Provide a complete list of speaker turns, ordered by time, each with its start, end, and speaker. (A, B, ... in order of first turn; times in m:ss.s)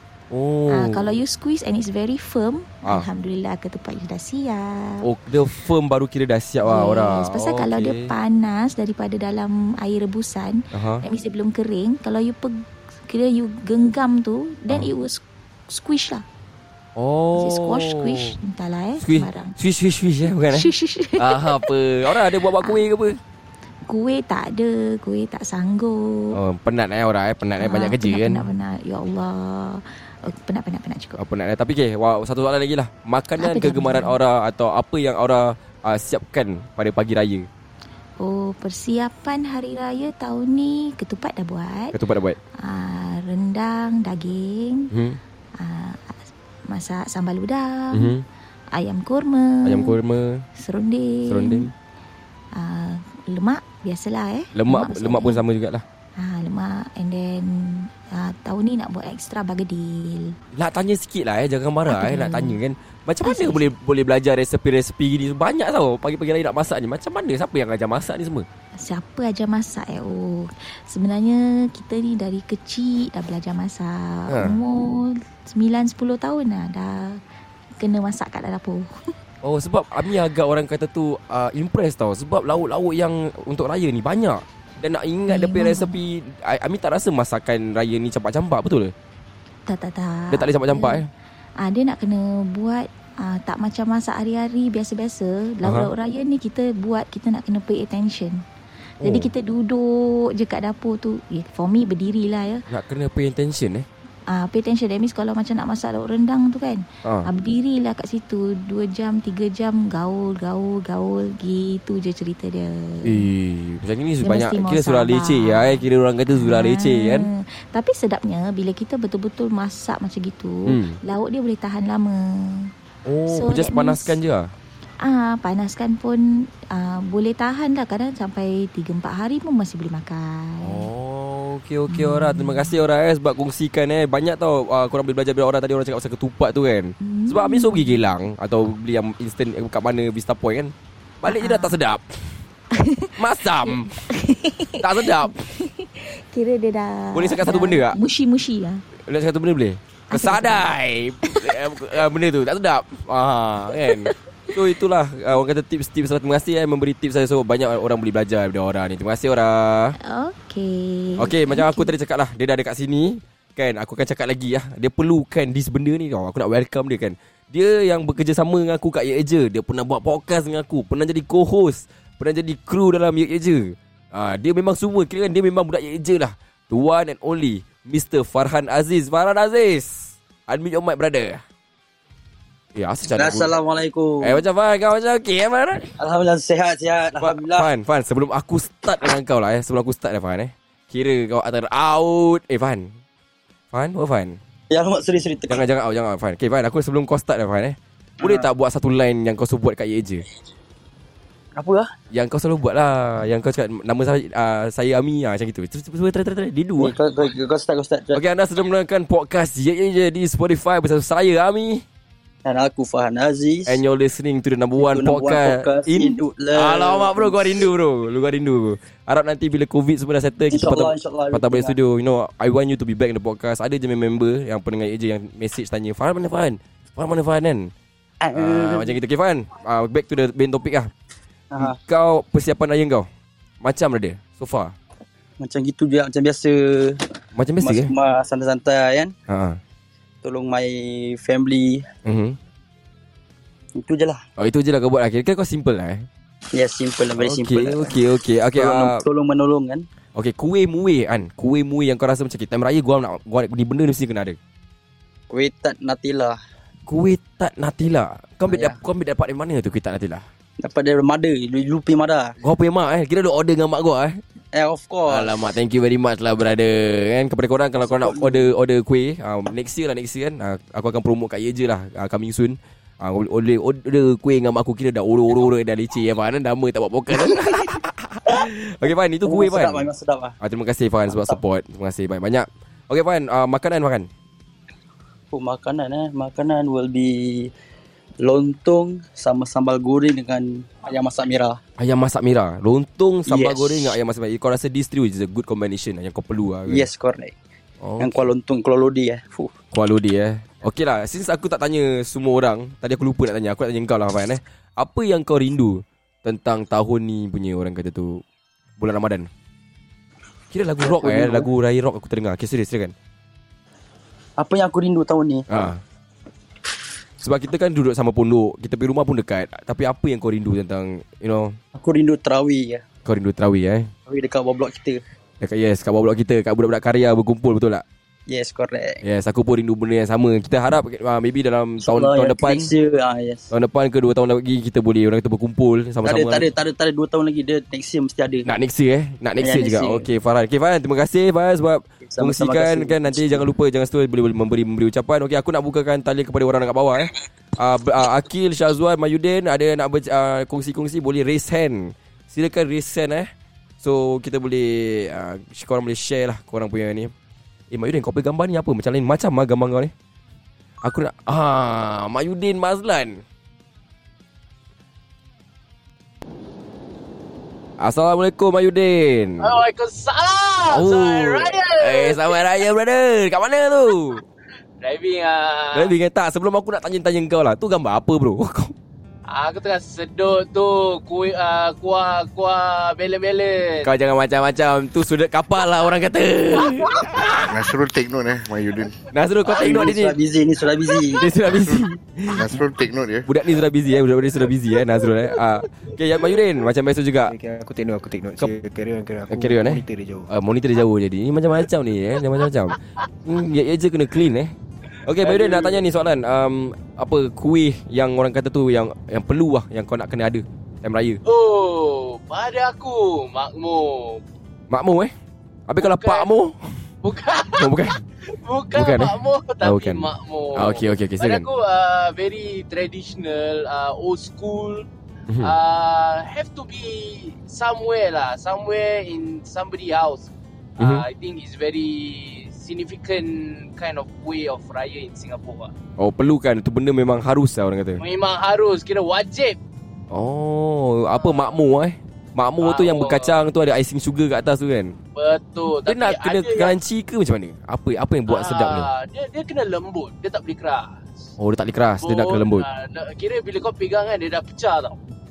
0:00.3-0:01.2 A
0:00.7-0:05.0 B
0:05.0-0:08.1 A
0:06.6-0:16.2 B
0:10.7-0:11.0 A
0:17.0-0:18.4 A
0:17.3-0:19.6 B
0:19.0-0:23.2 A
0:20.5-0:22.9 B
0:23.9-0:26.4 B
0:26.3-0:28.5 A
0:27.6-0:31.2 B
0:31.2-0:37.5 A
0:33.4-0:34.2 B
0:38.2-0:42.0 B
0:41.9-0:42.4 A
0:42.6-0:44.9 B
0:44.9-0:45.2 A
0:45.6-0:46.2 B
0:46.7-0:48.1 B
0:47.9-0:48.2 A
0:48.7-0:50.0 B
0:49.6-0:50.4 A
0:50.6-0:51.7 B
0:51.3-0:51.7 A
0:52.5-0:55.4 B
0:54.5-0:55.8 A
0:56.2-1:00.3 B
1:00.5-1:08.4 A
1:01.9-1:02.6 B
1:03.2-1:03.7 B
1:08.8-1:17.2 B
1:14.3-1:14.6 A
1:17.8-1:18.9 B
1:19.4-1:28.9 A
1:25.3-1:26.0 B
1:29.7-1:31.0 B
1:30.3-1:31.1 A
1:31.6-1:38.4 B
1:35.6-1:35.9 A
1:39.0-1:39.3 A
1:39.0-1:42.6 B
1:42.7-1:43.8 A
1:44.3-1:53.2 B
1:53.0-1:57.3 A
1:54.2-2:02.7 B
2:00.7-2:01.0 A
2:03.1-2:04.5 A
2:03.3-2:04.2 B
2:05.0-2:10.9 B
2:10.6-2:22.0 A
2:11.9-2:12.8 B
2:17.0-2:18.1 B
2:21.2-2:21.8 B
2:22.7-2:28.8 B
2:23.2-2:23.9 A
2:24.8-2:25.3 A
2:27.1-2:28.0 A
2:29.0-2:40.0 A
2:30.1-2:30.7 B
2:33.8-2:34.1 B
2:40.0-2:42.0 B
2:41.2-3:01.4 A
3:02.8-3:03.5 A
3:03.2-3:04.4 C
3:04.2-3:05.9 A
3:06.0-3:07.7 C
3:07.2-3:12.9 A
3:13.7-3:14.4 A
3:14.7-3:15.6 C
3:15.5-3:20.2 A
3:18.2-3:18.5 C
3:21.6-3:21.9 C
3:22.1-3:26.9 A
3:26.8-3:28.2 C
3:28.1-3:31.8 A
3:32.4-3:33.8 C
3:33.6-3:47.7 A
3:34.8-3:37.6 C
3:40.5-3:41.7 C
3:48.2-3:49.0 C
3:48.3-3:50.9 A
3:51.5-3:51.8 C
3:51.6-3:53.1 A
3:53.6-3:54.7 A
3:55.4-3:57.0 C
3:57.3-3:57.9 A
3:57.6-3:59.1 C
3:59.3-3:59.6 A
4:00.2-4:01.8 C
4:02.0-4:02.4 A
4:03.8-4:04.2 C
4:04.4-4:06.1 A
4:06.5-4:07.9 C
4:07.1-4:09.0 A
4:08.5-4:09.8 C
4:10.2-4:14.4 A
4:15.3-4:16.4 C
4:16.9-4:20.2 A
4:18.5-4:18.8 C
4:20.6-4:22.3 C
4:22.4-4:24.2 A
4:24.5-4:25.4 C
4:25.1-4:39.9 A
4:27.8-4:28.5 C
4:39.2-4:40.3 C
4:40.4-4:44.1 A
4:41.1-4:41.4 C
4:45.3-4:47.5 C
4:48.2-4:51.6 C
4:51.8-4:56.8 A
4:53.3-4:54.0 C
4:56.7-4:57.3 C
4:57.8-4:58.3 A
4:58.0-4:59.5 C
4:59.7-5:08.2 A
5:08.8-5:09.3 A
5:10.5-5:12.9 A
5:10.8-5:11.5 C
5:14.4-5:15.4 C
5:15.5-5:15.8 A
5:17.2-5:21.6 A
5:21.8-5:22.8 C
5:23.0-5:23.9 A
5:24.1-5:25.0 C
5:25.4-5:27.8 A
5:28.3-5:29.0 C
5:29.0-5:32.7 A
5:31.8-5:33.5 C
5:33.5-5:36.5 A
5:36.0-5:38.5 C
5:38.4-5:57.1 A
5:39.4-5:40.0 C
5:42.0-5:43.4 C
5:57.7-5:59.9 A
6:00.8-6:03.2 A
6:07.8-6:09.5 A
6:09.4-6:12.4 D
6:10.7-6:14.2 A
6:14.8-6:15.9 D
6:15.7-6:18.7 A
6:19.3-6:23.8 D
6:23.8-6:27.4 A
6:27.4-6:28.9 E
6:29.1-6:30.2 A
6:29.5-6:31.2 C
6:31.1-6:32.5 A
6:31.5-6:33.3 E
6:33.3-6:37.3 A
6:37.3-6:40.3 F
6:39.3-6:44.5 A
6:45.0-6:51.2 A
6:45.2-6:45.7 D
6:51.2-6:54.2 D
6:54.7-6:55.1 A
6:55.7-6:56.6 A
6:55.8-6:56.3 D
6:57.0-6:57.7 D
6:57.6-6:58.0 A
6:58.4-7:04.8 D
6:58.7-7:01.5 A
7:05.3-7:05.6 A
7:05.4-7:15.7 D
7:10.8-7:11.1 A
7:16.0-7:18.0 A
7:18.0-7:19.6 D
7:20.1-7:24.9 A
7:21.2-7:21.5 D
7:22.6-7:23.4 D
7:25.2-7:26.7 D
7:25.8-7:28.9 A
7:28.3-7:31.0 D
7:31.4-7:32.7 A
7:32.0-7:35.0 D